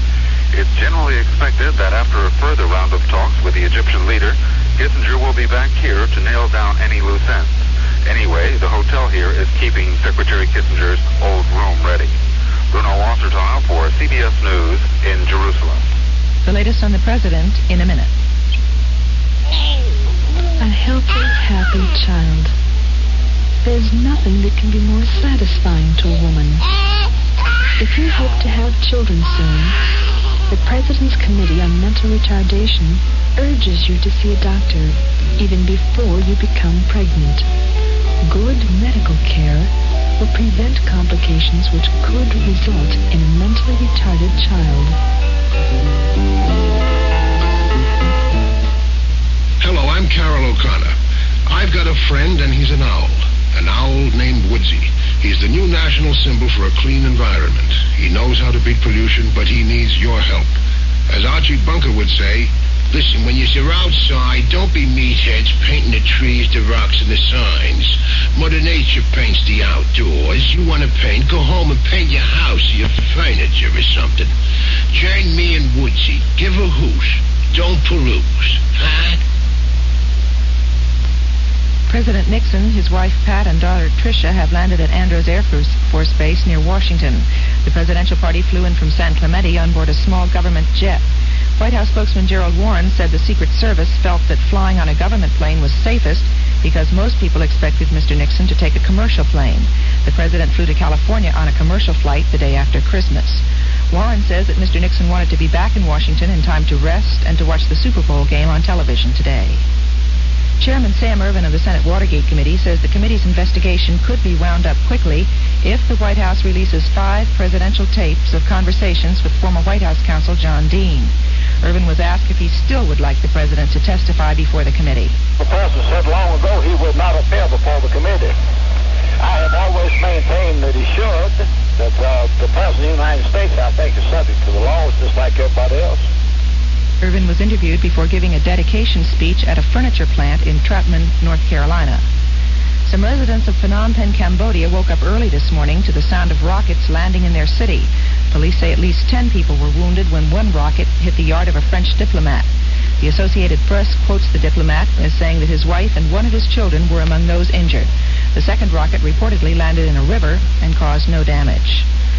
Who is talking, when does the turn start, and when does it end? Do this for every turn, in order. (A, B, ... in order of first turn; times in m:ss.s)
0:00.5-0:07.5 A
0:08.0-0:12.1 A
0:12.7-0:15.8 A
0:16.4-0:18.1 B
0:20.6-0:22.5 C
0:23.6-0:26.6 C
0:27.8-0:29.8 C
0:30.5-0:37.4 C
0:38.2-0:45.0 C
0:49.6-0:51.0 D
0:51.5-1:00.5 D
1:01.1-1:14.3 D
1:14.9-1:19.2 D
1:21.9-1:31.0 B
1:31.6-1:49.6 B
1:50.6-2:05.2 B
2:05.4-2:08.4 E
2:09.2-2:16.0 E
2:17.0-2:22.0 B
2:22.8-2:32.5 B
2:33.0-2:41.9 B